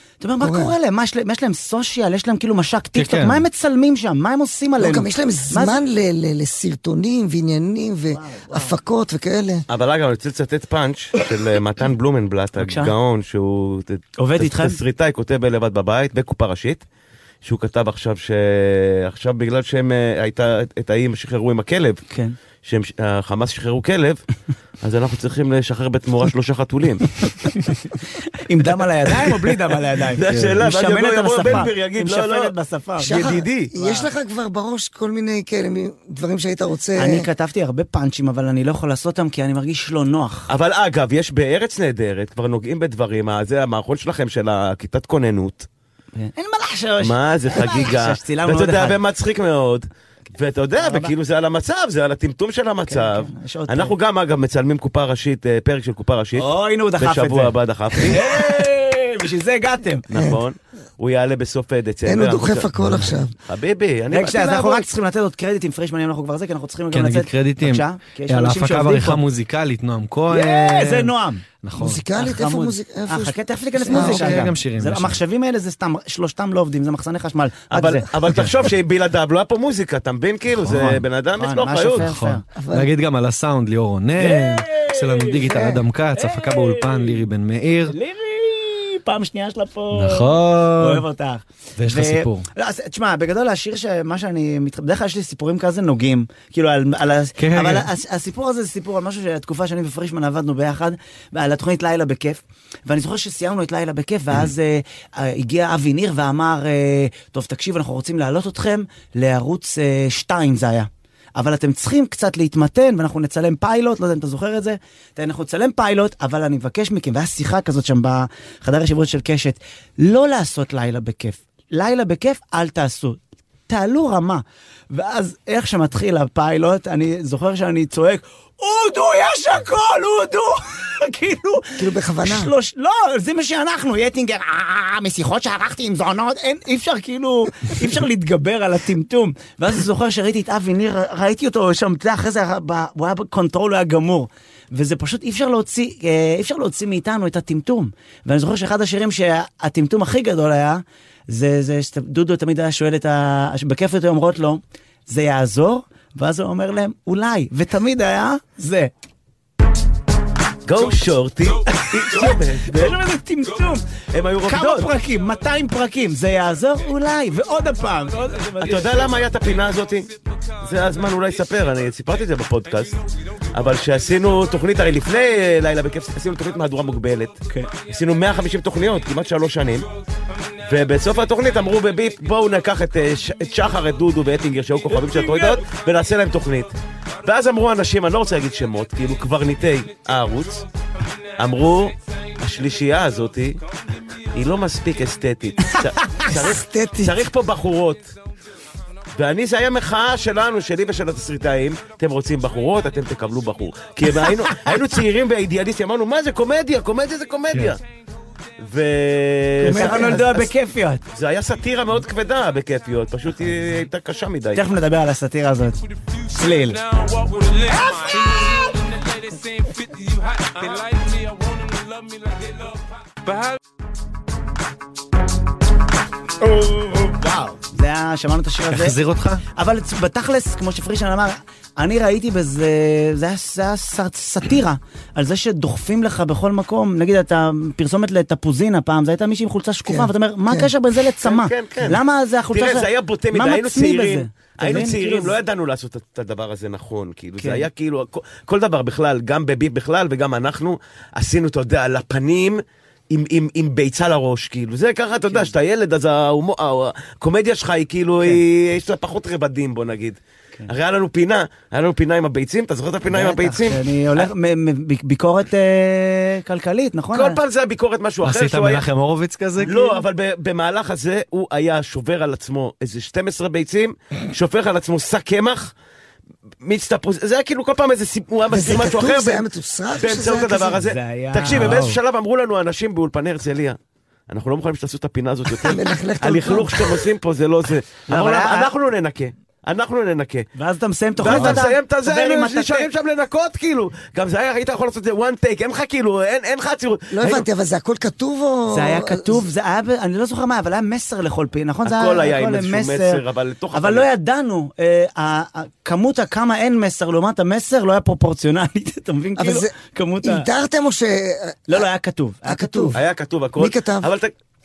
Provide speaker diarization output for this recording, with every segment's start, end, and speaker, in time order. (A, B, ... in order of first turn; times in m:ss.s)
0:00.2-0:05.8 A
0:00.4-0:00.7 B
0:03.0-0:03.4 C
0:04.8-0:09.6 B
0:08.1-0:08.8 A
0:09.7-0:16.8 D
0:12.6-0:12.9 A
0:14.2-0:14.8 A
0:17.4-0:22.0 D
0:22.1-0:22.4 A
0:22.6-0:24.2 D
0:24.8-0:27.1 D
0:28.2-0:34.1 A
0:30.1-0:32.5 D
0:30.2-0:30.6 C
0:33.0-0:37.3 B
0:33.0-0:33.7 D
0:37.0-0:40.5 A
0:40.5-0:45.7 D
0:46.1-0:49.0 A
0:47.0-0:58.2 D
0:50.8-0:51.1 A
0:52.9-0:54.0 A
0:56.4-1:00.0 A
1:00.1-1:02.7 D
1:00.1-1:00.4 B
1:02.0-1:03.3 B
1:03.4-1:04.9 D
1:04.1-1:09.2 A
1:06.9-1:12.0 C
1:10.3-1:11.4 A
1:11.8-1:14.5 B
1:12.1-1:18.5 A
1:13.9-1:15.2 C
1:17.7-1:22.1 D
1:20.6-1:22.4 A
1:22.0-1:28.0 C
1:22.6-1:22.9 B
1:24.2-1:25.5 A
1:25.4-1:25.8 B
1:26.1-1:27.2 A
1:27.9-2:38.9 A
1:29.9-1:31.0 C
1:31.8-1:32.5 C
1:37.4-1:37.9 C
2:11.8-2:12.5 B
2:40.7-2:43.0 D
2:41.7-2:43.8 A
2:44.1-2:45.0 D
2:44.4-2:49.2 A
2:48.6-2:50.1 D
2:50.6-2:53.0 D
2:53.5-2:59.9 D
3:00.6-3:10.6 D
3:04.9-3:05.6 A
3:11.4-3:13.6 D
3:14.3-3:18.1 D
3:16.3-3:17.3 B
3:19.2-3:27.8 D
3:24.2-3:24.5 A
3:28.6-3:30.5 D
3:29.6-3:31.0 A
3:31.1-3:34.6 D
3:34.5-3:35.8 A
3:36.3-3:36.8 A
3:36.3-3:43.6 E
3:37.6-3:38.7 A
3:46.4-3:49.0 A
3:48.7-3:49.4 C
3:49.5-4:05.3 A
3:59.8-4:00.7 B
4:01.2-4:02.0 D
4:02.5-4:23.8 D
4:07.4-4:07.7 A
4:15.2-4:15.5 A
4:23.1-4:27.4 A
4:27.1-4:28.8 D
4:28.2-4:29.8 C
4:29.6-4:35.7 D
4:36.6-4:39.4 D
4:38.5-4:40.8 B
4:40.0-4:43.8 D
4:40.8-4:41.9 A
4:41.5-4:41.8 C
4:44.3-4:50.5 D
4:45.6-4:47.0 B
4:48.1-4:48.7 A
4:50.6-4:52.9 A
4:51.2-4:57.4 D
4:57.1-4:59.4 B
4:58.7-5:03.2 A
5:01.8-5:04.1 D
5:03.7-5:10.5 A
5:09.4-5:11.8 B
5:11.7-5:13.0 A
5:12.5-5:13.0 B
5:12.9-5:14.3 D
5:13.6-5:14.1 B